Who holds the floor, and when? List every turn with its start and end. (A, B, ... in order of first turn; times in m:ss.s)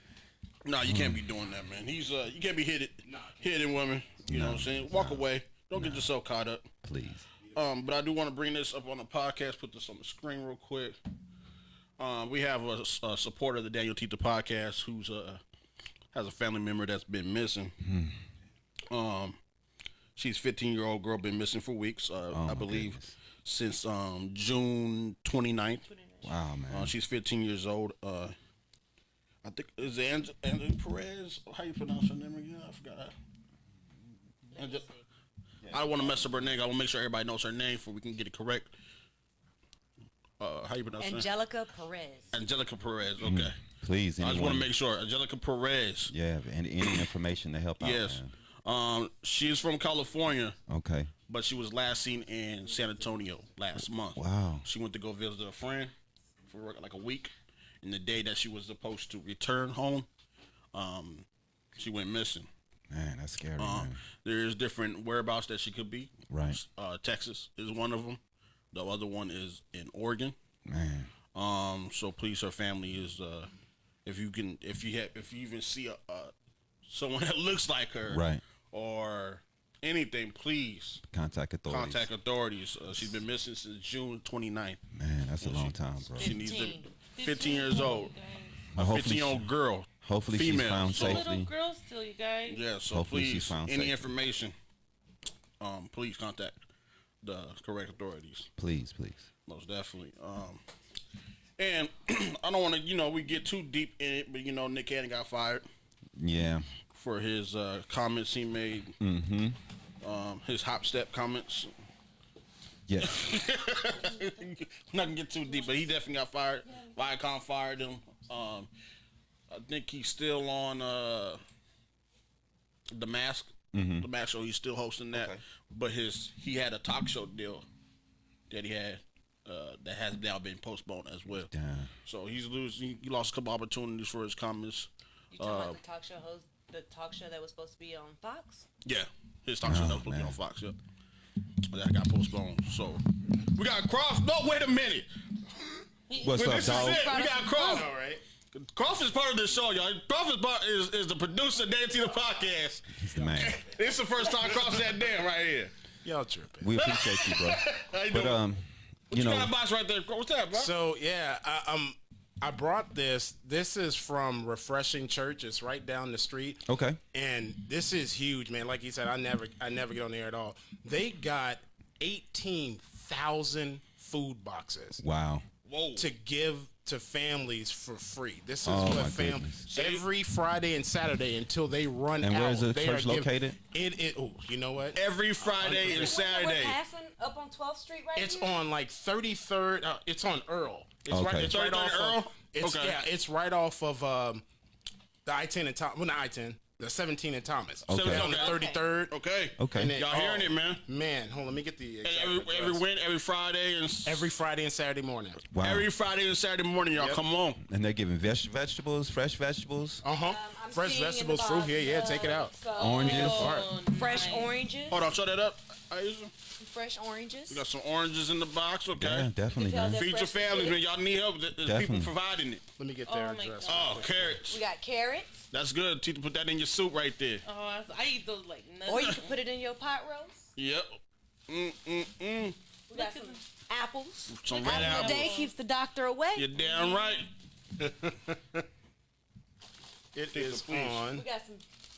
0:00.6-0:06.7 A
0:00.8-0:01.2 B
0:03.1-0:03.5 C
0:04.3-0:06.1 B
0:06.8-0:07.3 B
0:07.5-0:11.0 A
0:12.0-0:15.4 A
0:16.1-0:17.8 A
0:17.8-0:18.2 B
0:18.9-0:19.4 A
0:20.2-0:25.9 A
0:22.3-0:23.1 B
0:25.9-0:26.3 D
0:26.2-0:26.9 B
0:26.7-0:28.4 A
0:29.4-0:33.1 A
0:34.5-0:34.9 A
0:34.6-0:34.8 D
0:35.7-0:38.7 A
0:40.4-0:41.3 A
0:41.0-0:42.3 E
0:42.3-0:43.6 A
0:43.2-0:44.7 B
0:44.2-0:46.1 A
0:46.1-0:48.3 B
0:46.8-0:47.1 A
0:47.8-0:50.6 A
0:50.7-0:51.1 B
0:51.3-0:55.9 A
0:54.2-0:54.7 B
0:56.5-1:00.1 A
1:00.7-1:02.5 A
1:02.9-1:04.0 B
1:03.6-1:08.2 A
1:06.3-1:06.6 B
1:08.7-1:10.4 A
1:10.7-1:11.1 B
1:11.3-1:13.5 A
1:14.0-1:16.3 A
1:16.9-1:21.0 A
1:18.1-1:18.4 B
1:21.1-1:22.1 B
1:21.7-1:24.8 A
1:24.9-1:26.4 B
1:25.4-1:28.1 A
1:26.2-1:26.9 E
1:26.3-1:28.7 D
1:28.8-1:31.5 B
1:28.8-1:31.3 A
1:30.9-1:32.6 D
1:32.5-1:34.5 A
1:32.9-1:34.1 B
1:35.6-1:36.6 A
1:37.2-1:38.5 A
1:38.6-1:39.3 B
1:39.5-1:40.6 A
1:41.6-1:45.6 A
1:46.2-1:46.7 B
1:46.9-1:49.0 A
1:49.0-1:49.6 B
1:50.0-1:51.7 A
1:52.9-1:53.2 B
1:53.0-1:58.7 A
1:59.5-2:01.4 A
2:02.9-2:07.6 A
2:03.7-2:04.1 B
2:05.1-2:05.4 B
2:08.5-2:11.5 A
2:11.3-2:11.9 B
2:12.0-2:15.8 A
2:15.3-2:18.6 E
2:18.8-2:20.8 A
2:19.6-2:20.4 B
2:21.7-2:23.0 A
2:23.6-2:25.7 A
2:26.1-2:27.1 D
2:26.2-2:27.1 B
2:26.3-2:27.9 A
2:26.6-2:27.9 E
2:27.6-2:28.2 C
2:28.5-2:35.7 A
2:32.9-2:33.6 B
2:36.0-2:36.8 C
2:36.6-2:39.5 B
2:36.8-2:38.4 A
2:39.1-2:40.7 A
2:40.5-2:55.0 C
2:46.7-2:47.0 B
2:55.0-2:55.5 B
2:55.6-2:56.1 A
2:56.0-3:06.2 C
2:58.6-2:59.7 B
2:59.7-3:00.0 A
3:02.2-3:03.6 B
3:05.0-3:06.8 A
3:05.8-3:08.6 E
3:08.2-3:14.4 C
3:11.1-3:11.5 B
3:11.4-3:13.0 A
3:15.3-3:19.2 C
3:17.9-3:18.3 B
3:17.9-3:20.8 A
3:18.1-3:18.8 E
3:19.6-3:19.9 B
3:19.7-3:22.8 C
3:22.0-3:24.3 A
3:24.0-3:25.4 C
3:25.5-3:25.9 B
3:25.6-3:27.6 A
3:26.9-3:27.2 C
3:27.6-3:30.0 B
3:30.0-3:33.8 C
3:30.2-3:35.1 E
3:32.8-3:33.6 B
3:32.8-3:34.6 D
3:34.9-3:36.3 A
3:36.6-3:37.6 E
3:37.5-3:39.3 A
3:38.9-3:40.0 B
3:39.5-3:40.8 E
3:39.9-3:42.6 A
3:41.6-3:42.1 B
3:42.8-3:44.4 C
3:43.1-3:44.1 D
3:43.6-3:44.6 A
3:44.5-3:45.4 E
3:45.5-3:47.4 A
3:47.4-3:49.1 D
3:48.9-3:50.4 E
3:50.6-3:52.6 A
3:52.9-3:56.6 E
3:52.9-3:53.4 D
3:54.3-3:55.3 A
3:54.5-3:55.5 D
3:56.4-3:57.3 A
3:56.6-3:57.2 D
3:57.8-3:58.4 C
4:00.1-4:01.2 C
4:00.3-4:01.1 A
4:01.1-4:01.6 E